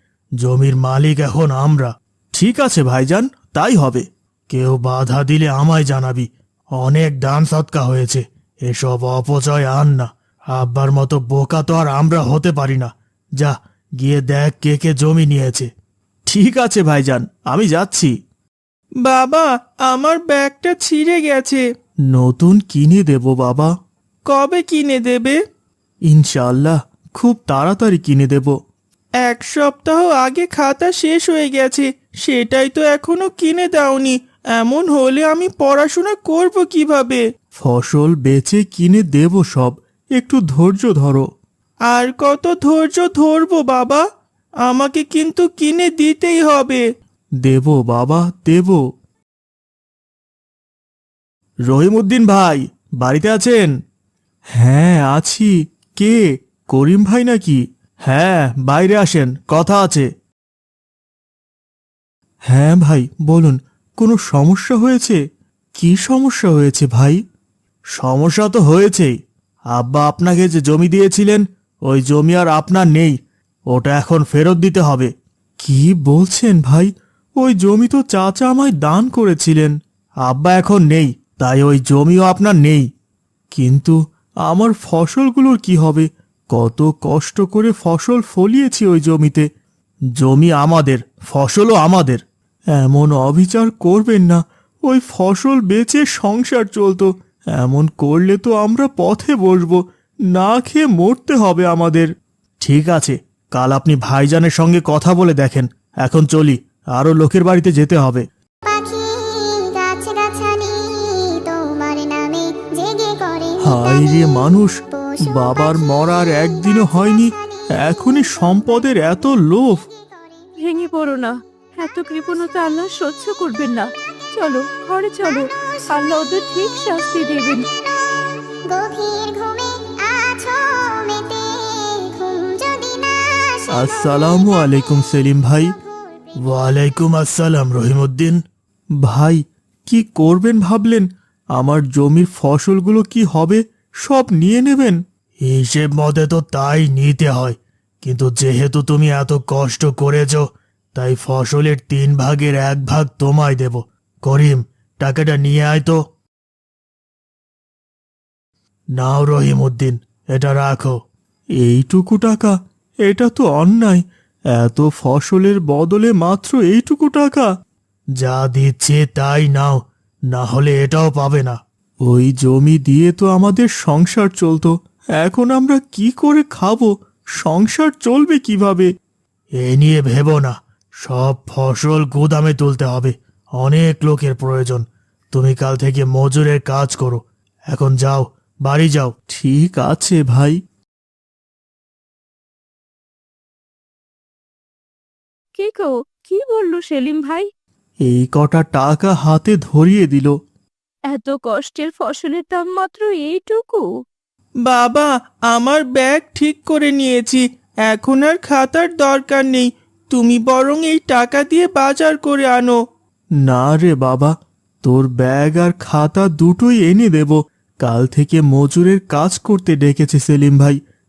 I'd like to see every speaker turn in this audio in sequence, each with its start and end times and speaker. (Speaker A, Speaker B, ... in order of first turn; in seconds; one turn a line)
Speaker A: 0.4-15.7
Speaker A: 16.3-18.1
Speaker B: 19.0-21.6
Speaker A: 22.1-23.7
Speaker B: 24.3-25.4
Speaker A: 26.1-28.6
Speaker B: 29.2-37.2
Speaker A: 37.6-41.3
Speaker B: 41.9-44.0
Speaker B: 44.7-46.8
Speaker A: 47.4-48.8
Speaker A: 51.7-53.7
Speaker A: 54.6-56.2
Speaker A: 56.7-60.1
Speaker A: 62.5-65.2
Speaker A: 65.8-67.2
Speaker A: 68.0-69.2
Speaker A: 69.7-73.2
Speaker A: 73.7-75.1
Speaker A: 75.6-76.9
Speaker A: 77.4-79.8
Speaker A: 80.3-82.9
Speaker A: 83.5-84.0
Speaker A: 84.5-89.5
Speaker A: 90.2-92.2
Speaker A: 92.8-99.8
Speaker A: 100.3-102.1
Speaker A: 102.6-108.3
Speaker C: 108.7-117.3
Speaker A: 113.6-119.8
Speaker C: 119.9-120.5
Speaker D: 120.6-127.7
Speaker C: 128.7-134.9
Speaker A: 133.7-135.7
Speaker A: 136.5-138.4
Speaker A: 139.0-156.0
Speaker A: 159.0-161.0
Speaker A: 161.6-162.5
Speaker A: 163.1-167.5
Speaker A: 168.2-169.8
Speaker A: 170.3-178.9
Speaker A: 179.6-190.6
Speaker D: 195.6-197.5
Speaker A: 198.1-200.3
Speaker D: 201.1-203.9
Speaker B: 204.7-212.8
Speaker A: 213.5-220.8